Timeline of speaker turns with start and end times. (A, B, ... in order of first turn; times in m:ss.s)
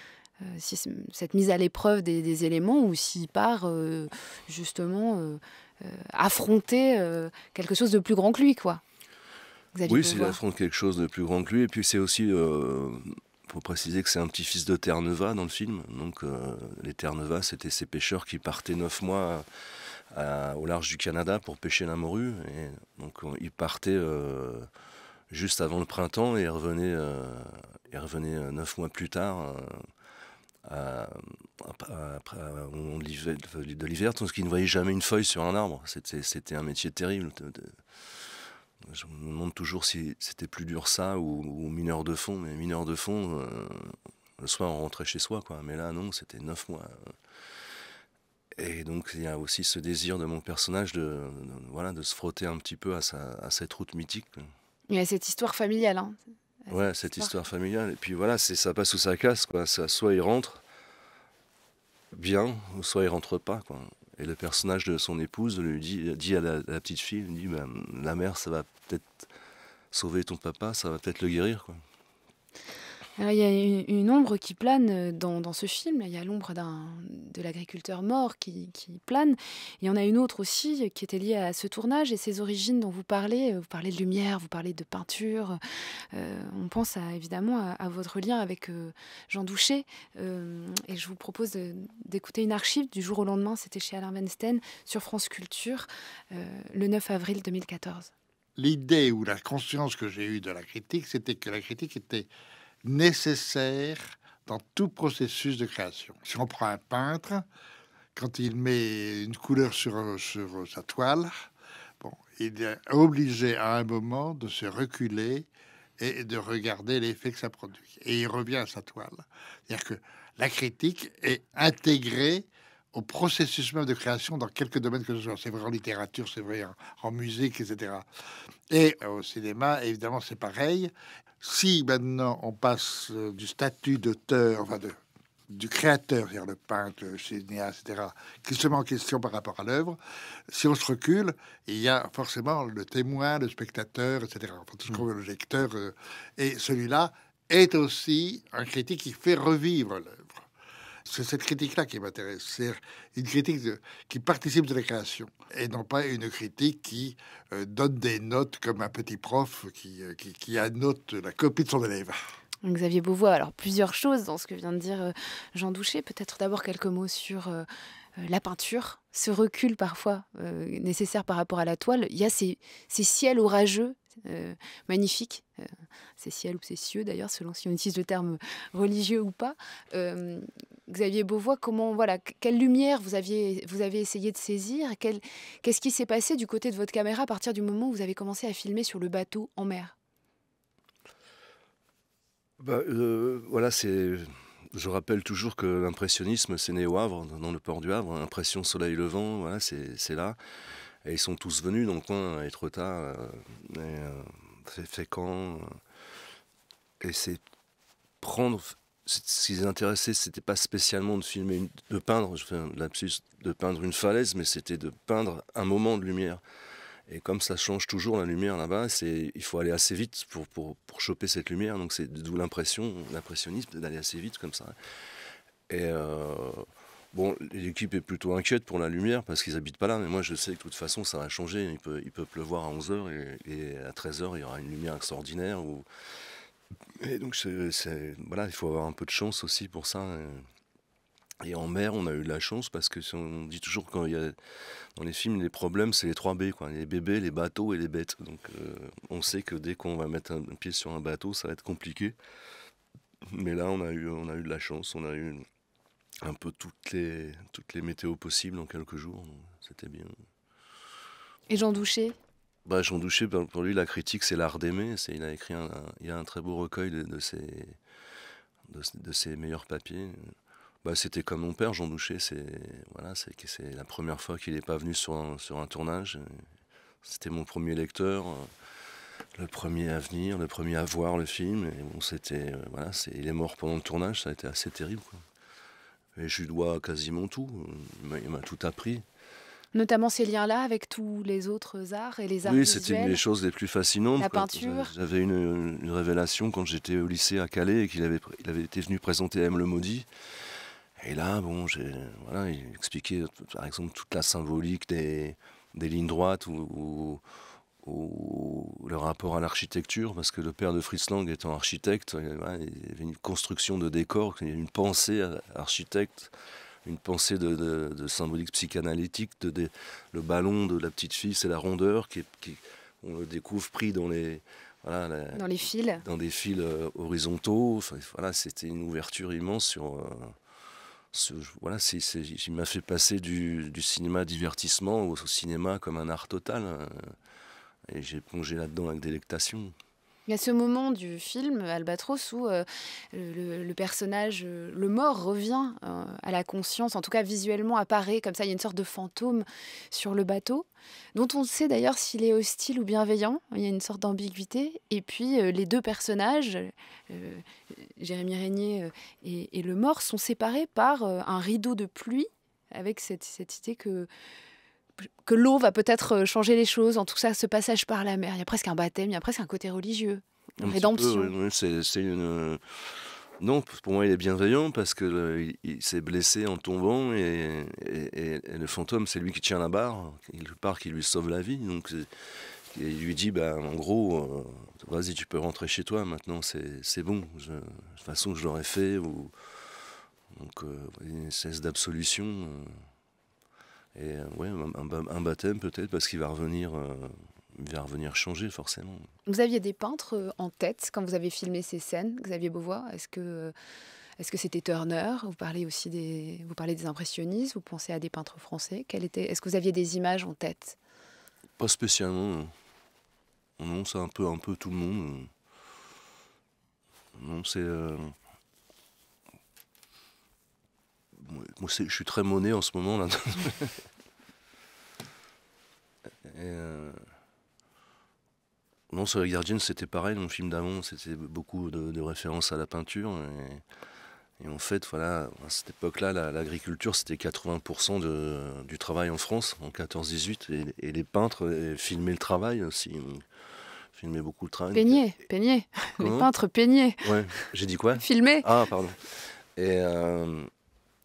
0:00.4-0:08.8 A
0:09.7-0:10.4 A
0:09.8-0:19.4 B
0:20.1-0:24.7 B
0:25.3-0:29.9 B
0:30.6-0:38.3 B
0:38.8-0:47.1 B
0:48.6-0:54.5 B
0:54.9-0:57.3 A
0:56.7-1:00.6 B
1:02.1-1:09.3 B
1:09.9-1:11.8 B
1:13.2-1:25.6 A
1:26.1-1:38.1 A
1:38.6-1:42.3 C
1:42.8-1:47.4 C
1:48.2-1:51.4 C
1:52.0-1:55.5 C
1:56.0-2:08.0 C
2:08.7-2:15.0 C
2:15.5-2:20.0 C
2:20.5-2:30.4 C
2:31.1-2:42.2 C
2:42.6-2:47.6 A
2:48.2-2:55.4 A
2:56.2-3:09.9 A
3:12.6-3:20.4 B
3:21.0-3:25.8 B
3:27.0-3:27.4 B
3:28.2-3:36.4 B
3:37.1-3:44.8 B
3:45.7-3:55.8 B
3:57.0-4:00.4 B
4:01.4-4:04.4 B
4:04.9-4:12.1 B
4:13.3-4:15.4 B
4:16.2-4:20.1 B
4:21.5-4:22.2 A
4:22.6-4:27.8 B
4:28.7-4:30.3 B
4:30.8-4:36.4 B
4:37.0-4:38.5 B
4:39.3-4:45.2 B
4:46.1-4:49.0 B
4:49.7-4:53.2 A
4:52.4-5:00.1 B
4:54.2-4:54.9 A
5:01.0-5:07.2 B
5:07.8-5:16.3 B
5:16.8-5:30.4 B
5:25.3-5:26.0 A
5:31.1-5:37.2 B
5:37.9-5:39.7 B
5:40.3-6:04.1 A
6:05.2-6:11.3 A
6:10.6-6:29.3 B
6:30.3-6:32.7 B
6:33.9-6:39.1 B
6:39.2-6:43.5 A
6:44.2-6:50.8 A
6:51.6-6:52.5 B
6:53.6-6:55.3 B
6:57.1-6:58.1 B
7:01.1-7:03.8 B
7:06.2-7:07.0 B
7:08.9-7:13.6 B
7:14.4-7:23.2 B
7:23.9-7:25.0 B
7:24.7-7:27.4 A
7:26.0-7:26.3 B
7:27.0-7:30.5 B
7:28.0-7:28.5 A